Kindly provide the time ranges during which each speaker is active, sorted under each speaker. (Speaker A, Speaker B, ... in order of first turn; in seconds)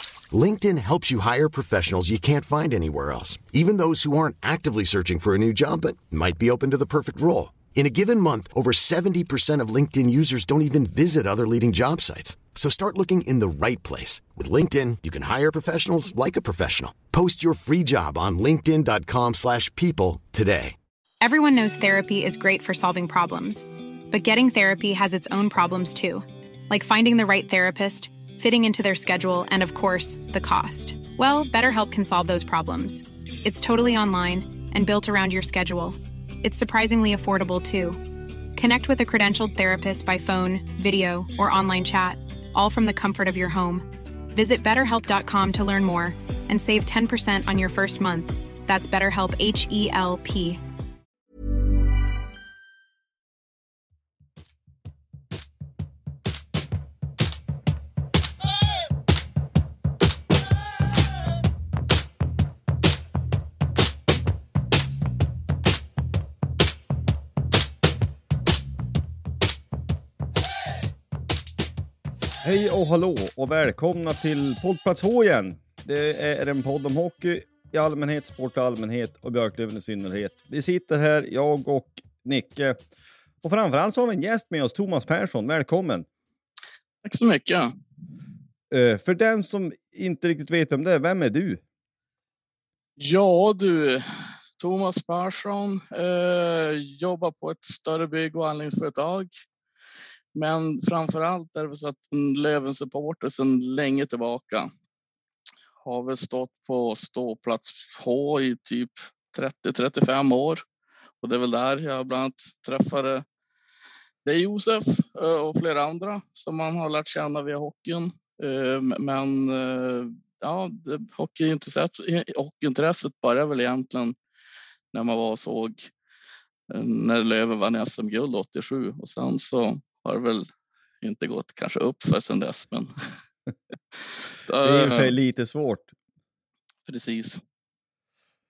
Speaker A: 0.3-20.8
Speaker B: 21.2-50.6
Speaker C: 72.4-82.8, 83.4-86.1, 88.7-91.6, 134.6-135.9
Speaker D: 87.0-87.7, 93.0-94.0, 94.6-99.3, 100.3-104.7, 105.8-110.6, 111.2-113.2, 114.2-124.2, 124.9-125.9, 126.7-130.5, 131.0-132.9, 134.4-135.1, 136.9-137.4